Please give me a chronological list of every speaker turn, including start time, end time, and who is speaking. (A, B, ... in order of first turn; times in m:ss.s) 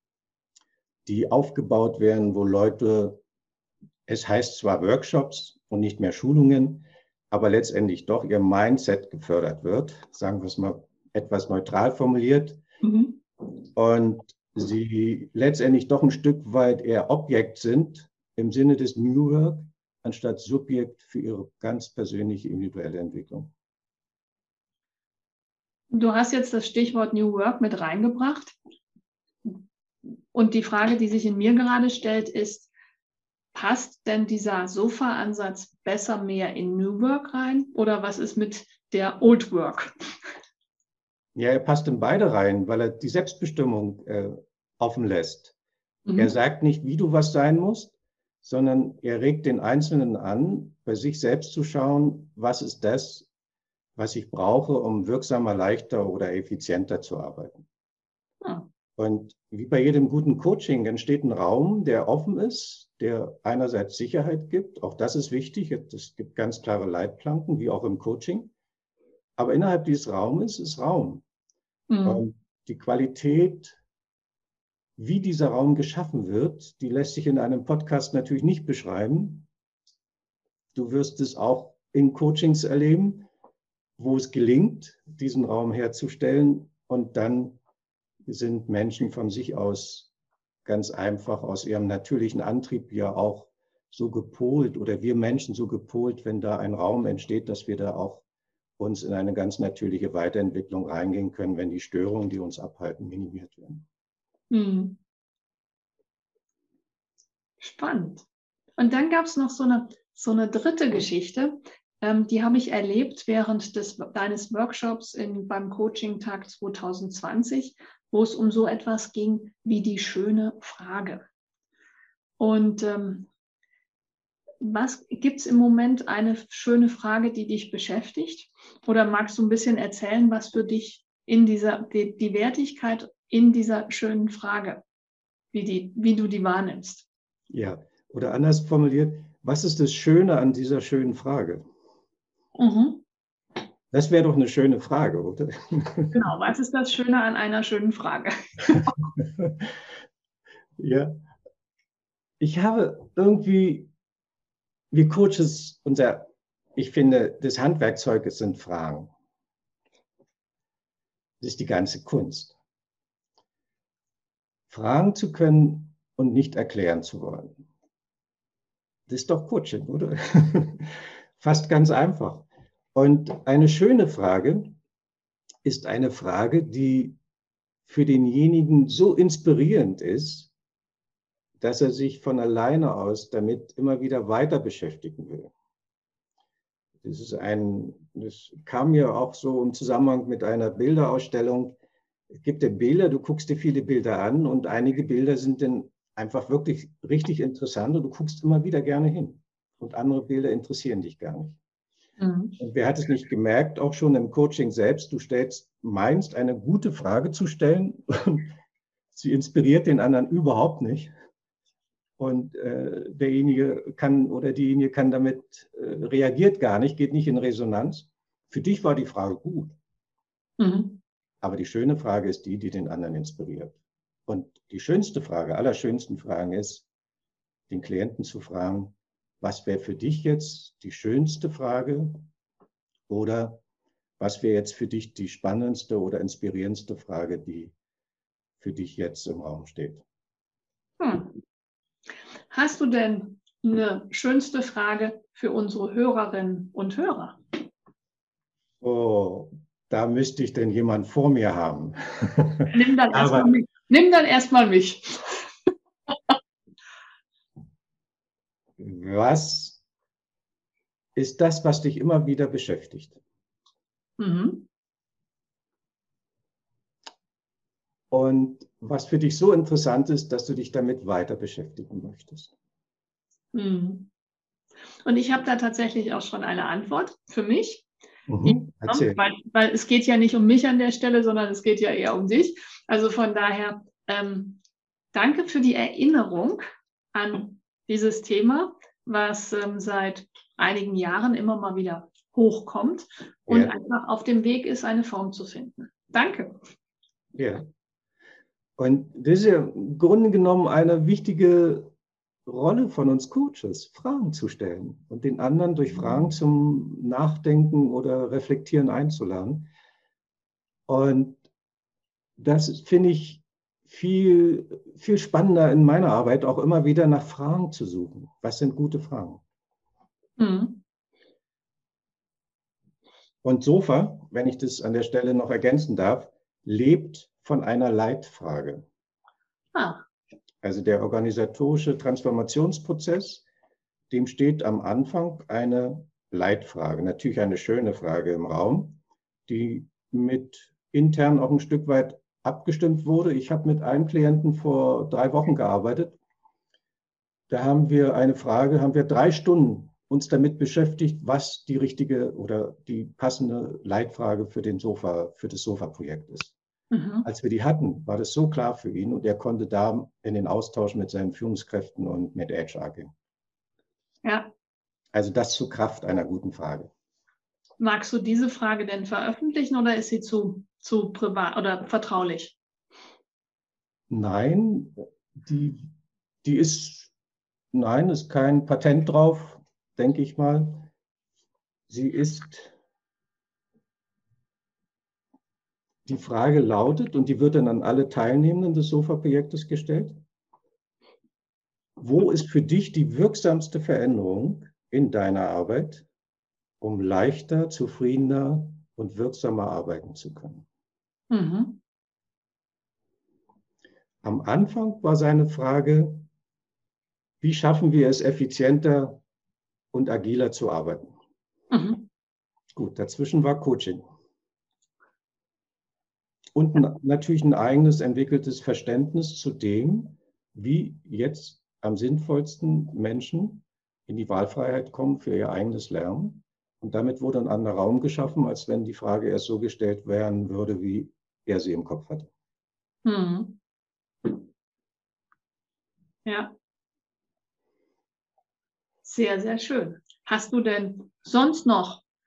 0:01.0-0:03.2 A
0:04.1-0:12.6 A
0:12.8-0:13.2 B
0:13.8-0:23.5 A
0:25.9-0:28.6 B
0:30.3-0:32.7 B
0:33.5-0:40.2 B
0:41.3-0:45.5 A
0:46.0-0:46.3 B
0:46.2-0:53.3 A
0:54.0-0:57.6 A
0:59.0-1:08.5 A
1:09.4-1:11.2 A
1:11.9-1:12.2 B
1:12.0-1:13.8 A
1:15.0-1:19.5 A
1:20.7-1:23.3 A
1:24.0-1:27.6 A
1:28.2-1:30.1 A
1:30.6-1:38.2 A
1:38.8-1:43.8 A
1:44.5-1:45.0 B
1:47.6-1:48.2 B
1:48.8-2:01.2 B
2:02.4-2:03.3 B
2:04.6-2:14.8 B
2:15.5-2:17.1 B
2:17.5-2:21.6 A
2:22.5-2:23.0 B
2:23.9-2:26.2 A
2:26.1-2:28.9 B
2:29.2-2:29.7 A
2:30.8-2:31.2 A
2:32.4-2:33.9 A
2:34.9-2:39.1 A
2:41.4-2:42.6 A
2:44.7-2:47.6 A
2:49.1-2:54.8 A
2:55.6-2:57.2 A
2:57.8-3:00.5 A
3:01.6-3:05.5 A
3:07.0-3:11.7 A
3:12.4-3:21.6 A
3:22.2-3:22.6 B
3:22.6-3:28.6 A
3:29.1-3:31.1 A
3:32.2-3:39.8 A
3:40.6-3:41.0 B
3:41.4-3:43.8 A
3:44.3-3:46.8 A
3:47.7-3:52.3 A
3:53.1-3:53.6 A
3:54.2-3:57.7 A
3:58.6-4:00.0 A
4:01.0-4:01.4 B
4:02.5-4:07.4 B
4:08.8-4:13.5 A
4:12.7-4:15.7 B
4:18.8-4:19.8 A
4:21.2-4:23.2 A
4:24.2-4:24.7 B
4:28.1-4:32.5 A
4:33.5-4:34.1 B
4:35.0-4:37.9 B
4:38.3-4:39.2 A
4:38.4-4:44.6 B
4:45.1-4:56.6 B
4:53.5-4:53.7 A
4:57.4-4:57.6 A
4:58.8-5:01.9 A
5:02.4-5:09.7 A
5:10.9-5:11.4 A
5:12.4-5:19.4 A
5:20.4-5:20.8 B
5:23.4-5:28.8 A
5:29.7-5:30.0 B
5:30.6-5:33.4 A
5:34.1-5:46.2 A
5:47.5-5:56.5 A
5:56.9-5:57.2 B
5:57.2-6:03.1 A
6:04.2-6:04.5 B
6:05.1-6:06.9 A
6:07.8-6:12.6 B
6:14.1-6:15.8 A
6:16.4-6:17.1 A
6:17.7-6:20.9 A
6:21.9-6:22.7 A
6:26.0-6:30.2 A
6:32.0-6:36.0 A
6:36.8-6:40.6 A
6:41.3-6:41.8 B
6:44.2-6:46.3 A
6:47.4-6:49.2 A
6:49.9-6:51.1 A
6:51.7-6:52.1 B
6:52.7-6:54.0 A
6:56.5-7:12.3 A
7:13.0-7:13.6 B
7:16.2-7:16.5 B
7:19.0-7:22.0 B